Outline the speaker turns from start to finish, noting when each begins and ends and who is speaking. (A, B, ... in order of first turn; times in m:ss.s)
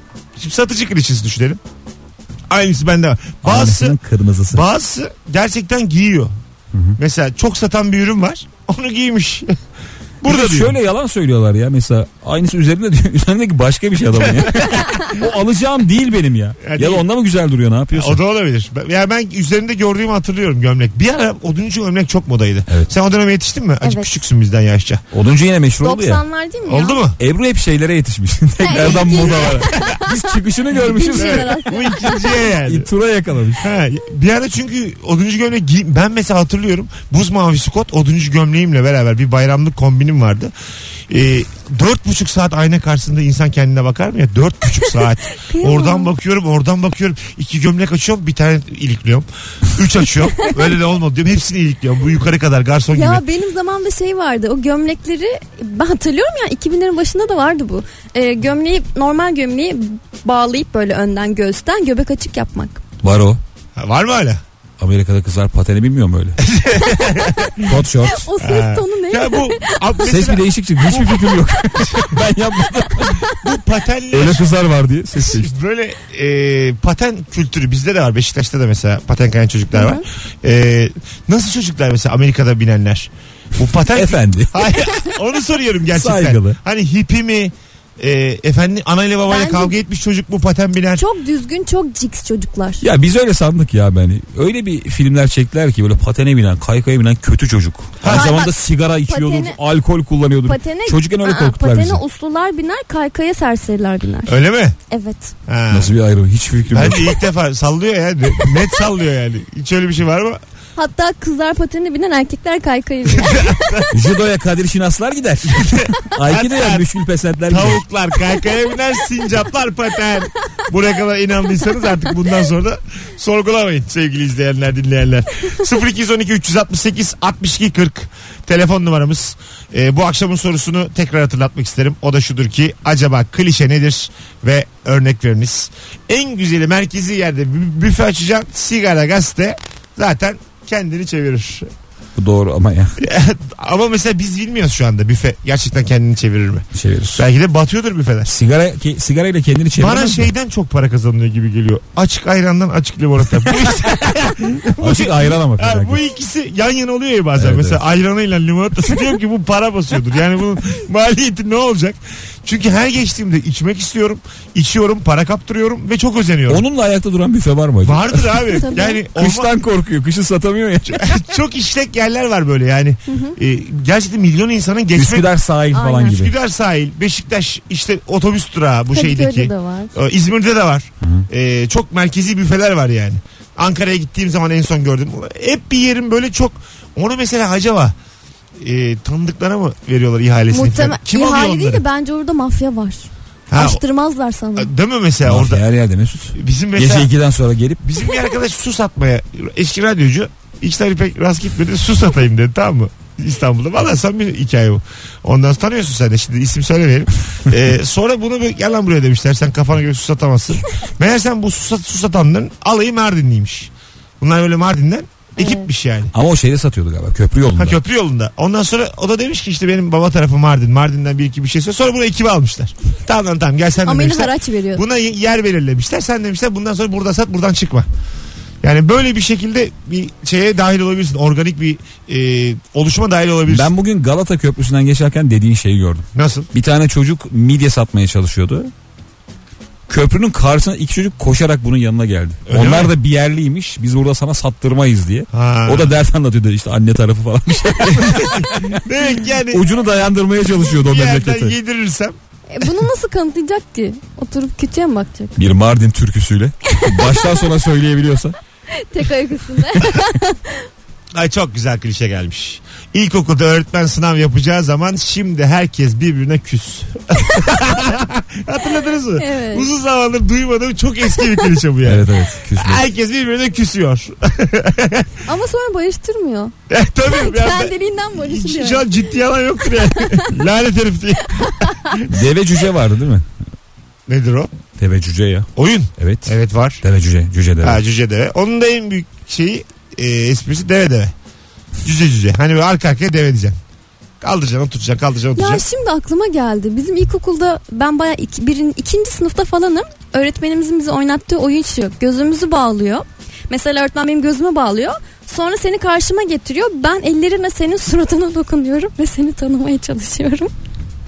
0:00.4-0:01.6 A
0:02.5-0:04.0 A
0:03.4-0:04.6 B
0:04.5-0:06.3 A
0:07.0-0:09.5 A
0:10.2-0:10.8 A
0:10.2-0:18.2 B
0:16.6-0:17.0 A
0:17.9-0:25.0 A
0:23.8-0:24.1 C
0:25.1-0:26.2 B
0:25.8-0:27.0 C
0:26.6-0:27.2 A
0:27.2-0:31.6 B
0:28.6-0:32.4 C
0:28.7-0:30.0 A
0:31.2-0:32.9 A
0:32.6-0:33.7 B
0:33.6-0:40.5 A
0:41.1-0:53.2 A
0:45.3-0:46.1 C
0:52.9-1:02.8 C
1:03.0-1:03.4 B
1:03.8-1:04.4 A
1:04.8-1:06.4 B
1:06.4-1:07.7 A
1:07.6-1:08.2 B
1:08.1-1:10.0 C
1:08.4-1:11.2 A
1:10.0-1:13.4 B
1:13.3-1:14.5 A
1:14.1-1:15.5 B
1:15.1-1:31.0 A
1:19.7-1:20.0 C
1:23.9-1:24.7 B
1:25.9-1:26.6 B
1:29.3-1:29.8 C
1:30.9-1:32.8 C
1:32.8-1:42.0 B
1:38.0-1:38.3 A
1:38.1-1:39.6 C
1:40.4-1:45.3 C
1:44.3-1:44.8 A
1:45.5-1:45.9 A
1:45.7-1:47.2 B
1:46.7-1:50.4 A
1:50.8-1:53.8 C
1:53.1-1:53.9 A
1:53.9-1:57.8 B
1:55.5-1:56.9 A
1:57.5-2:21.7 A
2:22.2-2:23.0 B
2:23.0-2:28.3 A
2:26.7-2:27.2 B
2:28.3-2:30.3 B
2:29.8-2:46.6 A
2:34.8-2:36.0 B
2:37.4-2:37.8 B
2:46.5-2:48.6 B
2:47.8-2:49.5 A
2:48.5-2:49.0 C
2:49.1-2:51.2 B
2:50.9-2:55.3 A
2:53.1-2:53.4 C
2:54.9-2:56.3 B
2:55.7-2:56.2 C
2:56.0-3:07.9 A
2:58.9-2:59.9 C
3:08.6-3:11.8 A
3:10.5-3:14.7 C
3:13.5-3:13.8 A
3:14.6-3:15.6 A
3:15.2-3:17.8 B
3:16.3-3:17.1 A
3:17.8-3:36.1 A
3:35.4-3:35.6 C
3:36.1-3:37.8 B
3:37.6-3:47.9 A
3:43.8-3:44.8 C
3:48.6-3:53.7 A
3:53.5-3:58.7 B
3:56.1-3:56.5 A
3:59.9-4:08.8 B
4:02.5-4:02.9 A
4:05.3-4:05.9 A
4:07.8-4:09.6 A
4:09.5-4:11.5 B
4:10.6-4:12.1 A
4:12.5-4:15.4 C
4:15.4-4:18.4 B
4:16.7-4:17.3 C
4:18.7-4:20.7 C
4:21.1-4:35.2 A
4:29.2-4:29.7 C
4:31.8-4:32.8 B
4:35.2-4:36.5 C
4:36.7-4:42.2 A
4:37.0-4:38.9 C
4:39.9-4:40.3 C
4:41.4-4:42.0 C
4:42.1-4:43.3 B
4:44.1-4:44.5 A
4:44.8-4:47.8 B
4:45.6-4:46.8 A
4:47.6-4:51.1 A
4:51.8-4:53.6 A
4:54.2-4:55.6 A
4:55.4-5:10.5 C